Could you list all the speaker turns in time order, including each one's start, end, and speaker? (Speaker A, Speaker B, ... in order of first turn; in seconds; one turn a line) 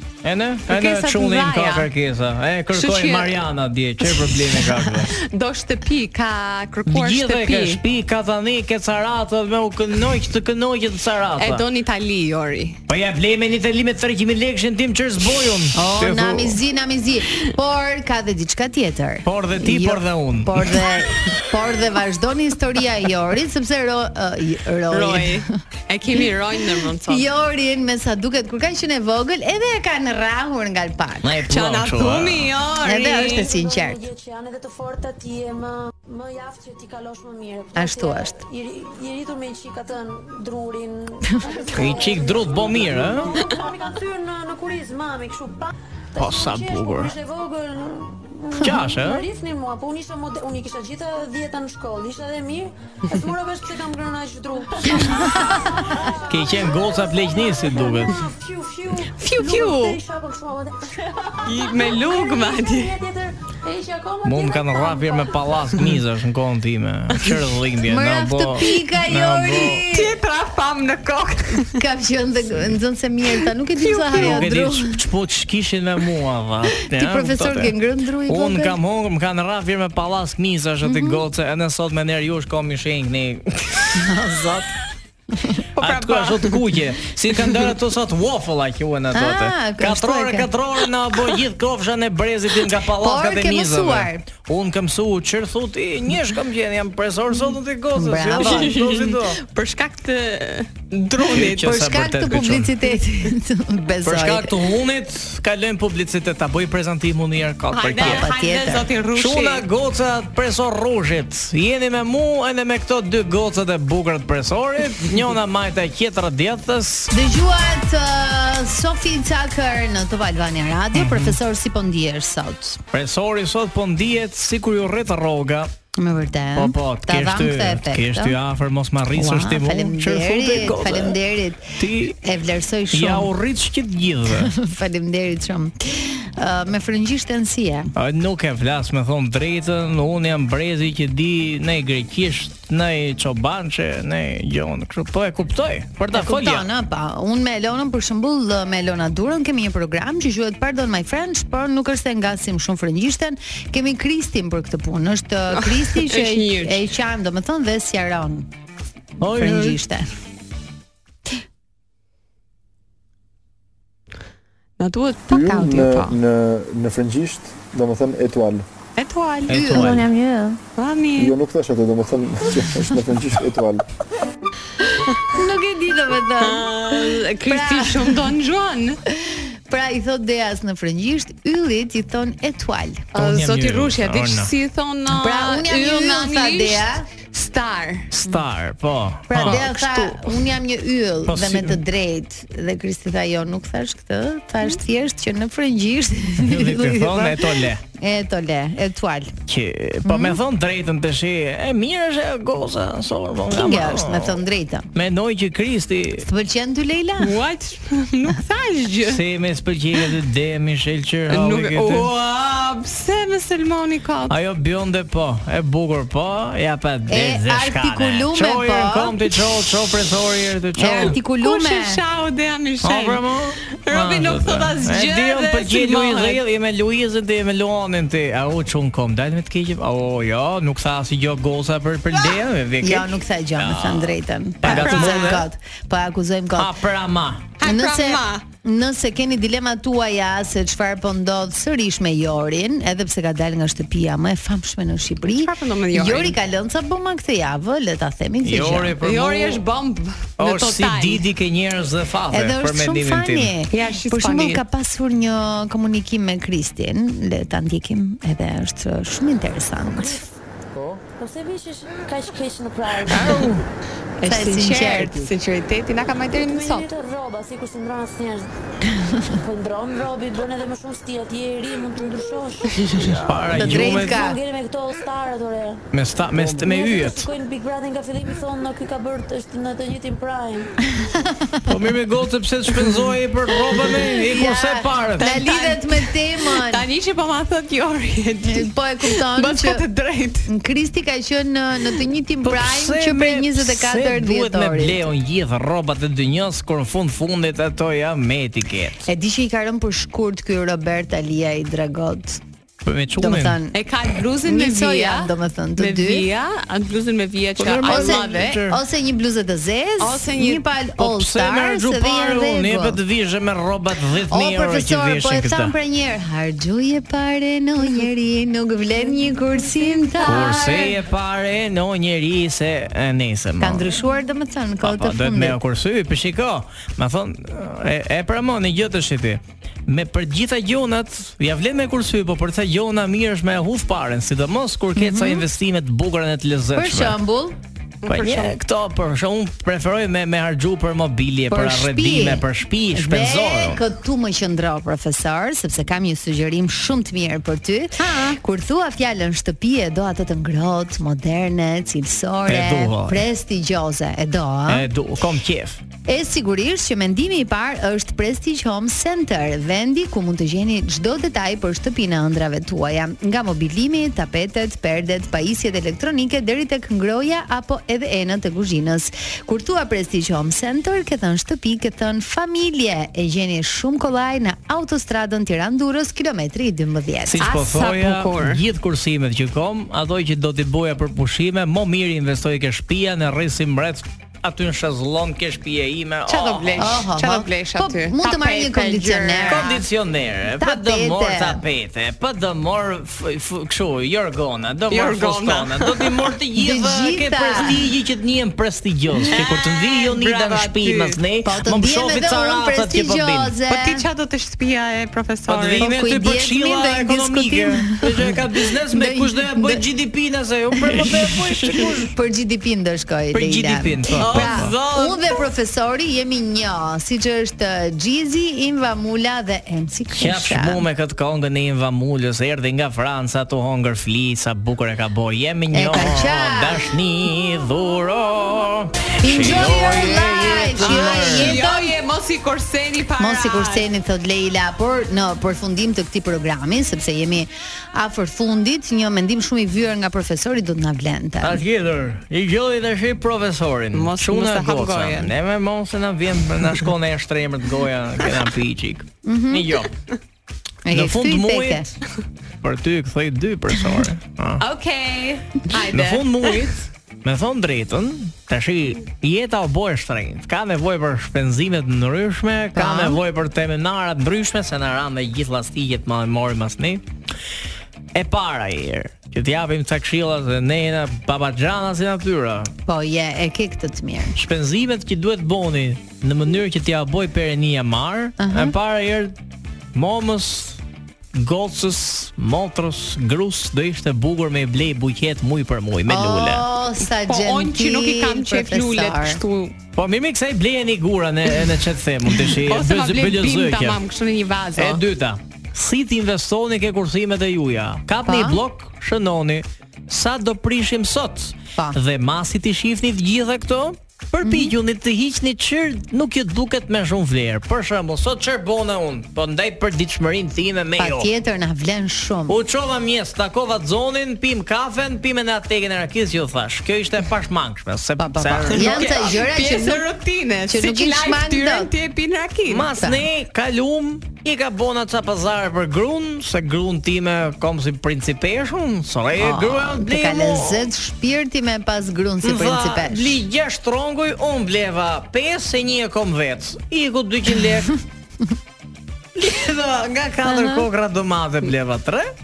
Speaker A: 0.2-5.1
Speaker B: 0.7-1.9
Speaker B: 2.7-3.4
Speaker B: 5.1-7.8
Speaker A: 6.9-11.7
Speaker B: 11.4-12.8
Speaker A: 12.9-16.6
Speaker C: 15.8-25.5
Speaker A: 19.2-20.9
Speaker B: 24.9-27.2
Speaker C: 27.1-31.4
Speaker A: 31.2-32.5
Speaker B: 31.5-33.5
Speaker C: 32.8-34.1
Speaker D: 33.2-65.6
Speaker C: 37.8-38.4
Speaker A: 41.7-43.4
Speaker A: 46.2-47.1
Speaker A: 48.6-49.3
Speaker A: 56.3-58.2
Speaker B: 59.2-60.0
Speaker B: 61.5-63.0
Speaker A: 64.2-69.8
Speaker C: 67.8-70.2
Speaker B: 69.7-71.8
Speaker C: 71.6-75.0
Speaker B: 73.8-74.5
Speaker A: 74.1-77.7
Speaker C: 76.8-78.8
Speaker A: 78.3-84.6
Speaker C: 80.8-81.2
Speaker C: 84.0-84.7
Speaker B: 85.8-86.6
Speaker A: 85.8-99.4
Speaker C: 89.1-90.5
Speaker C: 93.0-94.2
Speaker C: 98.0-98.8
Speaker B: 98.4-101.7
Speaker A: 101.2-102.8
Speaker C: 101.3-104.6
Speaker A: 104.0-108.3
Speaker B: 107.7-109.7
Speaker C: 108.0-108.9
Speaker A: 109.1-117.1
Speaker C: 117.1-122.8
Speaker A: 120.9-121.4
Speaker A: 122.9-125.7
Speaker C: 126.0-128.4
Speaker A: 126.5-131.2
Speaker C: 129.1-133.3
Speaker A: 131.8-132.2
Speaker A: 132.9-134.5
Speaker C: 134.3-137.9
Speaker A: 137.9-146.7
Speaker C: 146.1-158.5
Speaker B: 155.5-156.8
Speaker A: 159.2-159.8
Speaker C: 159.2-160.1
Speaker B: 164.8-166.2
Speaker E: 165.3-168.7
Speaker B: 169.0-169.6
Speaker A: 169.5-170.1
Speaker C: 169.5-170.1
Speaker D: 169.8-170.6
Speaker B: 170.8-171.4
Speaker E: 171.2-173.8
Speaker C: 175.1-178.2
Speaker B: 176.4-179.0
Speaker C: 179.1-183.1
Speaker A: 183.2-184.5
Speaker B: 183.2-188.2
Speaker C: 185.1-187.1
Speaker A: 188.1-189.8
Speaker C: 189.3-199.3
Speaker B: 189.4-190.4
Speaker A: 191.3-191.8
Speaker A: 196.4-197.8
Speaker A: 199.5-204.4
Speaker C: 200.0-200.4
Speaker C: 203.5-204.9
Speaker A: 204.9-206.3
Speaker C: 206.2-207.4
Speaker B: 207.2-209.2
Speaker A: 209.1-212.1
Speaker B: 211.3-214.4
Speaker A: 214.3-221.2
Speaker C: 217.1-219.3
Speaker C: 220.8-222.0
Speaker B: 220.9-223.2
Speaker A: 222.8-235.5
Speaker B: 223.8-226.4
Speaker C: 232.8-236.7
Speaker B: 234.7-235.4
Speaker A: 236.6-237.5
Speaker B: 237.6-238.4
Speaker C: 237.6-249.0
Speaker B: 245.3-246.3
Speaker A: 248.4-249.6
Speaker B: 249.0-251.2
Speaker A: 250.4-253.5
Speaker C: 252.3-260.2
Speaker B: 253.7-254.6
Speaker D: 259.9-260.3
Speaker D: 261.2-263.3
Speaker B: 263.1-263.6
Speaker B: 264.2-266.9
Speaker C: 264.3-265.3
Speaker D: 266.3-268.5
Speaker D: 269.4-275.8
Speaker A: 273.1-274.3
Speaker C: 273.5-274.4
Speaker A: 275.9-277.3
Speaker D: 276.4-280.7
Speaker C: 281.0-281.6
Speaker A: 281.7-285.4
Speaker C: 283.9-286.9
Speaker B: 285.2-290.5
Speaker C: 288.4-289.8
Speaker C: 290.5-295.1
Speaker A: 292.4-299.1
Speaker C: 299.1-302.4
Speaker A: 302.8-303.6
Speaker C: 303.2-303.8
Speaker B: 303.7-308.6
Speaker C: 304.4-306.3
Speaker A: 307.6-308.8
Speaker C: 307.8-313.0
Speaker B: 310.0-310.6
Speaker A: 311.0-315.7
Speaker C: 314.3-321.0
Speaker A: 320.2-324.0
Speaker C: 323.6-325.6
Speaker A: 324.8-337.2
Speaker C: 335.0-335.4
Speaker C: 336.8-337.6
Speaker B: 338.0-338.6
Speaker A: 338.1-343.8
Speaker C: 341.5-354.9
Speaker B: 348.0-348.4
Speaker A: 352.5-353.2
Speaker A: 354.7-355.8
Speaker C: 356.1-377.5
Speaker A: 377.2-387.0
Speaker B: 377.4-378.6
Speaker B: 386.3-389.7
Speaker C: 386.8-389.8
Speaker A: 389.5-403.5
Speaker C: 390.6-391.6
Speaker B: 394.9-396.2
Speaker C: 396.6-397.9
Speaker B: 399.3-401.2
Speaker C: 401.4-404.1
Speaker B: 403.7-405.9
Speaker A: 405.5-412.1
Speaker C: 405.8-408.1
Speaker C: 408.8-409.8
Speaker C: 410.7-420.9
Speaker A: 413.3-414.8
Speaker B: 414.2-415.4
Speaker A: 420.1-431.6
Speaker C: 425.7-426.9
Speaker C: 429.2-432.0
Speaker B: 430.8-433.9
Speaker C: 433.2-441.6
Speaker A: 441.4-449.9
Speaker B: 443.9-445.3
Speaker C: 449.2-449.7
Speaker C: 450.9-451.9
Speaker A: 450.9-451.9
Speaker A: 452.6-454.6
Speaker B: 454.6-456.7
Speaker A: 455.9-467.0
Speaker C: 462.8-463.2
Speaker A: 468.1-472.7
Speaker C: 472.9-474.4
Speaker A: 474.4-479.4
Speaker C: 478.4-478.8
Speaker A: 479.9-480.8
Speaker A: 481.3-486.6
Speaker C: 486.1-489.4
Speaker B: 487.0-489.8
Speaker A: 490.0-494.0
Speaker B: 492.5-495.0
Speaker A: 494.8-511.3
Speaker C: 498.2-498.6
Speaker C: 504.4-504.7
Speaker C: 511.0-512.6
Speaker A: 512.5-519.1
Speaker C: 518.2-520.0
Speaker B: 518.7-522.9
Speaker C: 520.7-521.9
Speaker A: 522.7-530.9
Speaker C: 529.4-533.4
Speaker A: 532.4-537.9
Speaker A: 539.4-542.3
Speaker C: 540.5-540.9